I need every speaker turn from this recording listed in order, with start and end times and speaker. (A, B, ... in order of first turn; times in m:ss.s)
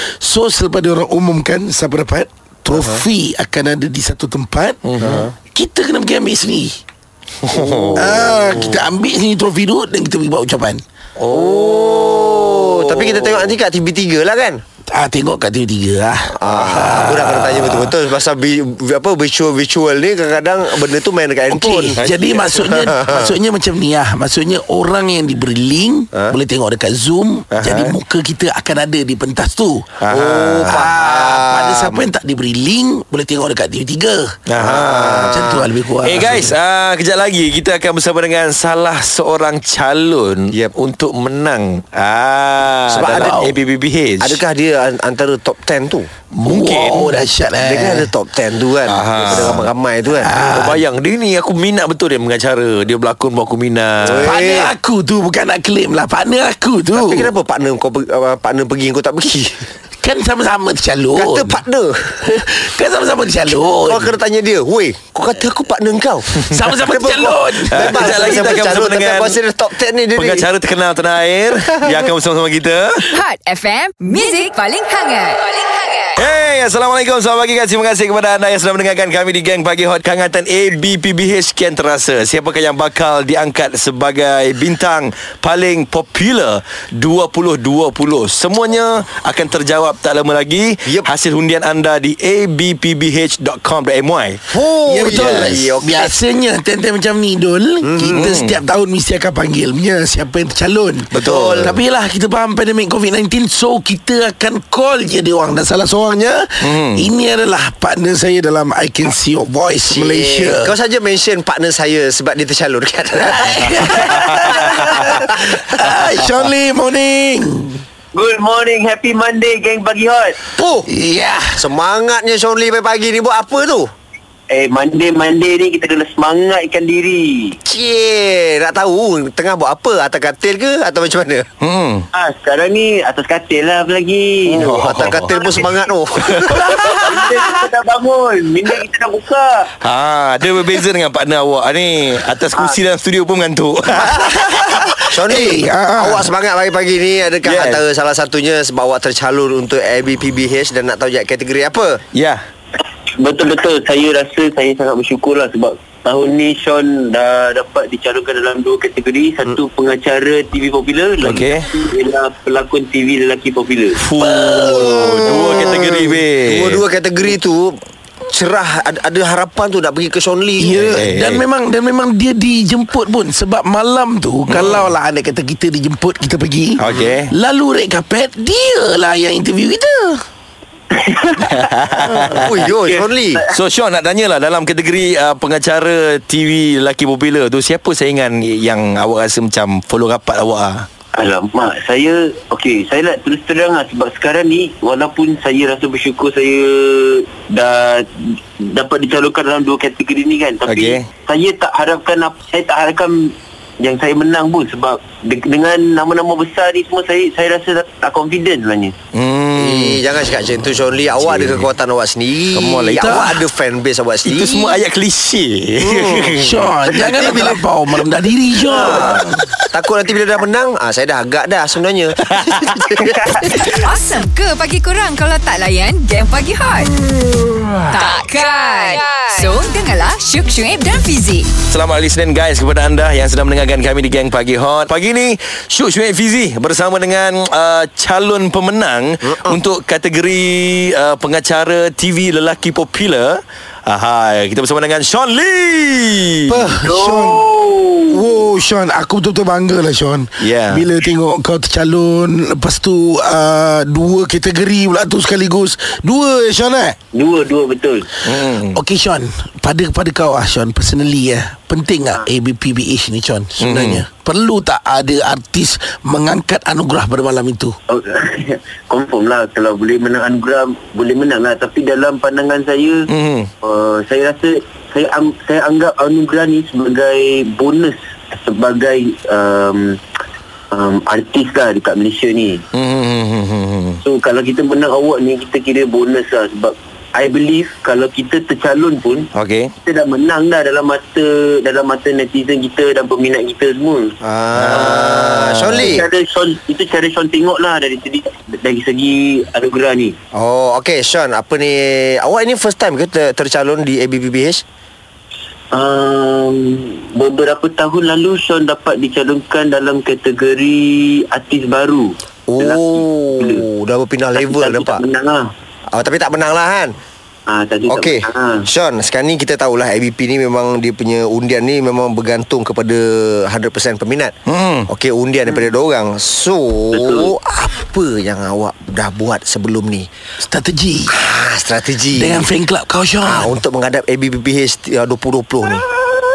0:00.2-0:04.8 A
0:02.7-0:03.0 B
0:04.8-0:05.3 C
0:05.0-0:05.3 B
0:05.5-0:06.8 A
0:07.5-0:08.8 B
0:07.5-0:08.1 C
0:07.9-0:10.8 A
0:11.2-0:13.5 C
0:11.3-0:14.6 B
0:14.9-0:17.9 A
0:16.3-0:23.3 B
0:21.5-0:29.9 A
0:22.0-0:22.4 C
0:27.5-0:28.0 C
0:30.0-0:30.9 C
0:30.1-0:32.1 B
0:30.6-0:34.4 A
0:34.5-0:35.4 C
0:34.6-0:35.6 B
0:35.2-0:36.5 A
0:36.0-0:44.4 C
0:42.9-0:43.4 B
0:43.0-0:43.6 A
0:44.2-0:46.1 B
0:46.4-0:47.2 C
0:46.4-0:48.1 A
0:47.6-0:50.4 B
0:48.8-0:49.7 C
0:49.3-0:49.6 A
0:50.1-0:50.8 A
0:50.4-0:54.4 C
0:54.0-0:54.7 B
0:54.2-0:57.3 A
0:56.9-0:59.6 B
1:00.0-1:01.6 A
1:01.2-1:02.2 B
1:02.2-1:04.2 A
1:03.5-1:10.5 B
1:06.4-1:08.5 A
1:07.7-1:09.4 C
1:10.1-1:13.2 C
1:13.1-1:16.1 D
1:16.2-1:34.4 C
1:34.5-1:36.2 B
1:34.9-1:50.7 A
1:35.1-1:35.6 C
1:37.8-1:38.3 B
1:38.1-1:38.6 C
1:41.1-1:41.7 C
1:41.1-1:41.8 B
1:46.6-1:47.0 C
1:49.9-1:55.6 B
1:53.3-1:57.8 A
1:53.4-1:55.2 E
1:58.1-2:00.4 E
2:00.5-2:00.9 B
2:00.8-2:01.6 A
2:01.6-2:03.9 B
2:04.5-2:07.6 E
2:07.6-2:11.5 B
2:11.6-2:12.0 C
2:12.1-2:19.7 E
2:14.5-2:15.4 C
2:14.8-2:16.7 B
2:16.3-2:17.1 C
2:19.8-2:24.8 C
2:22.5-2:22.8 E
2:24.0-2:24.3 B
2:24.5-2:26.3 A
2:25.0-2:32.0 B
2:27.4-2:27.8 C
2:32.1-2:32.4 C
2:33.2-2:44.0 E
2:41.2-2:41.7 C
2:44.0-2:46.8 C
2:44.2-2:45.6 A
2:44.6-2:50.8 B
2:50.6-3:00.2 A
2:50.7-2:51.4 C
2:54.5-2:54.9 C
2:56.8-2:57.3 C
3:00.9-3:01.6 E
3:01.4-3:02.7 C
3:02.3-3:03.4 B
3:02.6-3:03.5 E
3:03.5-3:10.9 C
3:11.1-3:29.0 E
3:20.7-3:21.0 C
3:29.1-3:30.0 C
3:29.6-3:34.8 B
3:31.2-3:31.7 C
3:32.5-3:33.3 C
3:32.9-3:33.4 A
3:34.2-3:36.6 C
3:35.8-3:36.6 B
3:36.4-3:39.4 A
3:36.9-3:37.5 E
3:37.2-3:37.6 B
3:38.6-3:43.8 B
3:38.7-3:38.9 E
3:38.9-3:39.4 C
3:42.3-3:42.8 C
3:43.1-3:43.3 E
3:43.4-3:46.9 D
3:47.9-3:51.5 D
3:51.7-4:06.7 C
3:59.2-3:59.6 B
4:06.5-4:07.4 A
4:06.8-4:08.3 E
4:08.1-4:17.0 A
4:10.4-4:10.9 C
4:17.1-4:18.1 E
4:18.2-4:18.8 C
4:18.7-4:27.8 A
4:23.6-4:24.0 C
4:27.9-4:33.1 E
4:33.1-4:33.5 C
4:33.6-4:40.0 E
4:40.7-4:42.6 E
4:42.7-4:44.0 C
4:44.0-4:49.3 E
4:49.3-4:49.7 C
4:49.8-4:54.2 E
4:54.2-4:56.0 B
4:54.5-4:56.0 C
4:54.7-5:00.1 E
5:00.3-5:04.6 B
5:05.7-5:13.6 E
5:12.5-5:15.0 B
5:14.4-5:15.4 E
5:15.9-5:16.9 B
5:17.5-5:18.7 E
5:17.9-5:24.3 B
5:24.5-5:24.9 C
5:24.9-5:30.1 B
5:26.9-5:27.3 E
5:30.4-5:31.1 A
5:31.1-5:32.5 B
5:32.1-5:33.6 A
5:33.2-5:35.9 B